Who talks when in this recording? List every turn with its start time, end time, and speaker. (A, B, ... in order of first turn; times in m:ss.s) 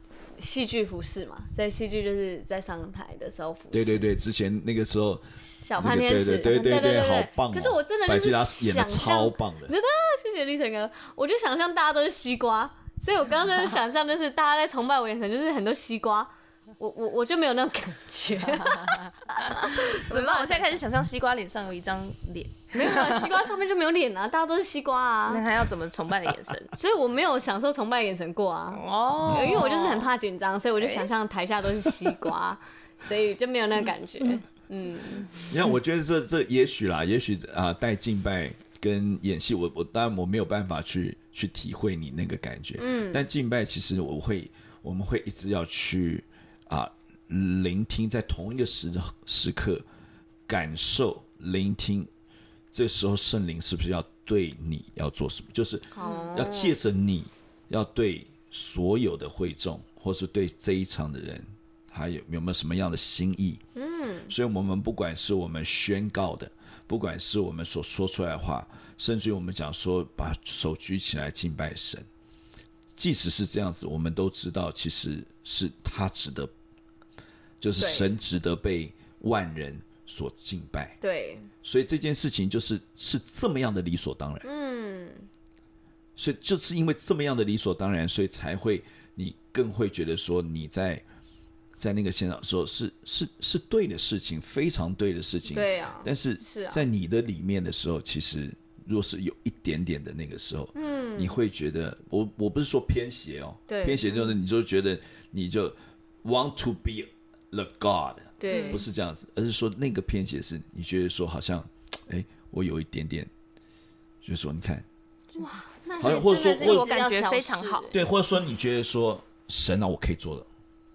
0:00.4-0:04.1 A
0:03.7-0:09.7 B
0:05.5-0:20.8 A
0:06.4-0:06.9 C
0:18.6-0:23.3 C
0:22.7-0:25.4 A
0:25.3-0:26.7 C
0:26.8-0:35.4 A
0:28.7-0:30.1 C
0:29.2-0:29.6 B
0:30.8-0:31.1 C
0:35.5-0:49.8 B
0:42.8-0:43.2 A
0:50.5-0:52.1 B
0:52.7-1:03.6 B
0:55.9-0:56.8 A
0:56.0-0:56.3 C
1:03.8-1:04.3 A
1:04.3-1:12.1 B
1:12.9-1:16.5 B
1:17.6-1:21.0 B
1:17.8-1:18.1 A
1:21.0-1:21.5 A
1:21.6-1:24.5 B
1:24.4-1:25.3 A
1:26.2-1:31.0 B
1:31.8-1:53.3 B
1:35.5-1:36.8 A
1:40.7-1:41.4 A
1:43.7-1:44.3 A
1:48.4-1:48.8 A
1:48.5-1:48.8 C
1:54.2-1:54.8 B
1:55.4-1:57.9 C
1:55.4-1:58.0 A
1:56.0-1:56.9 B
1:57.9-2:00.5 B